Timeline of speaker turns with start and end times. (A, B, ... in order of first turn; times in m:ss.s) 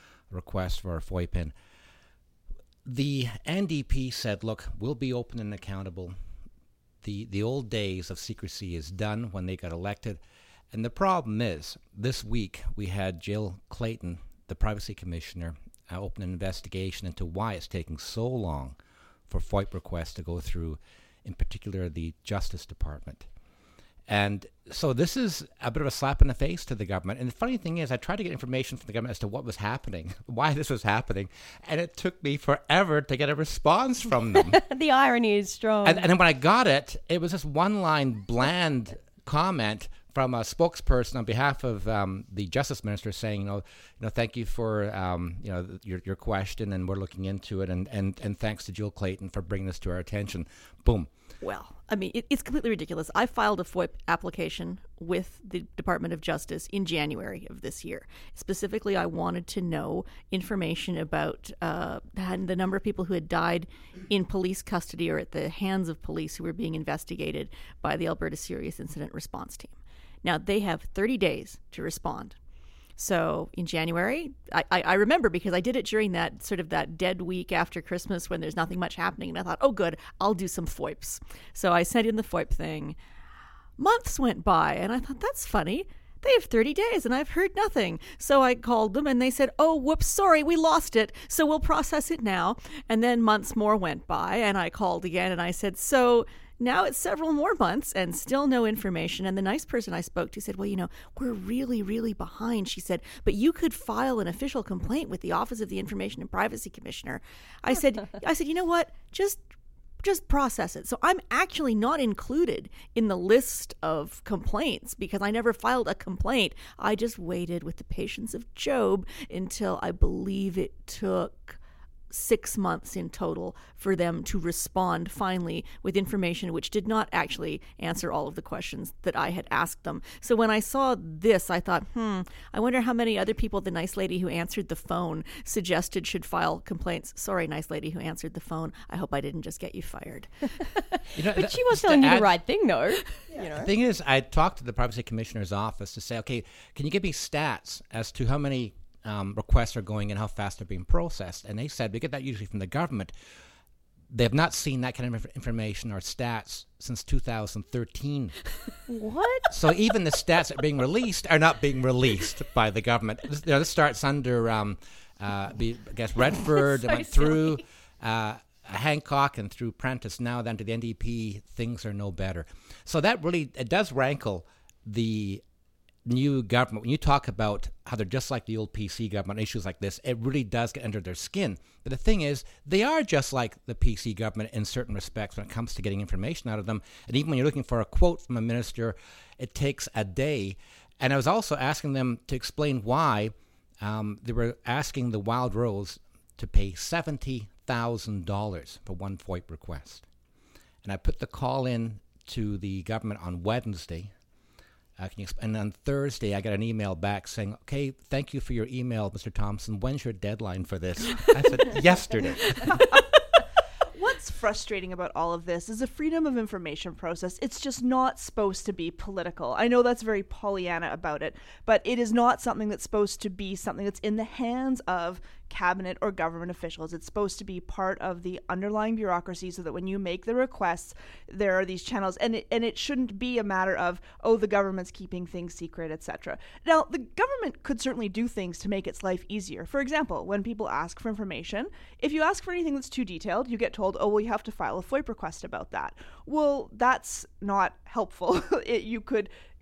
0:00.3-0:01.5 A
0:02.8-0:06.1 A
0:07.0-0:10.2 A
0:10.7-0:18.8 A
0:19.3-0:23.3 A
0:24.1-0:34.6 A
0:34.3-0:36.1 B
0:35.8-0:51.1 A
0:51.4-1:12.4 C
1:13.0-1:23.0 C
1:23.8-1:49.4 C
1:50.0-2:01.6 C
2:02.1-2:20.5 C
2:21.1-2:22.4 A
2:21.1-2:23.7 B
2:23.4-2:33.1 A
2:34.1-2:38.4 A
2:38.9-2:39.5 B
2:39.5-2:55.4 A
2:46.7-2:47.4 B
2:56.0-3:20.0 A
3:20.8-3:24.1 A
3:25.0-3:32.8 A
3:32.6-3:33.0 D
3:33.9-4:09.3 D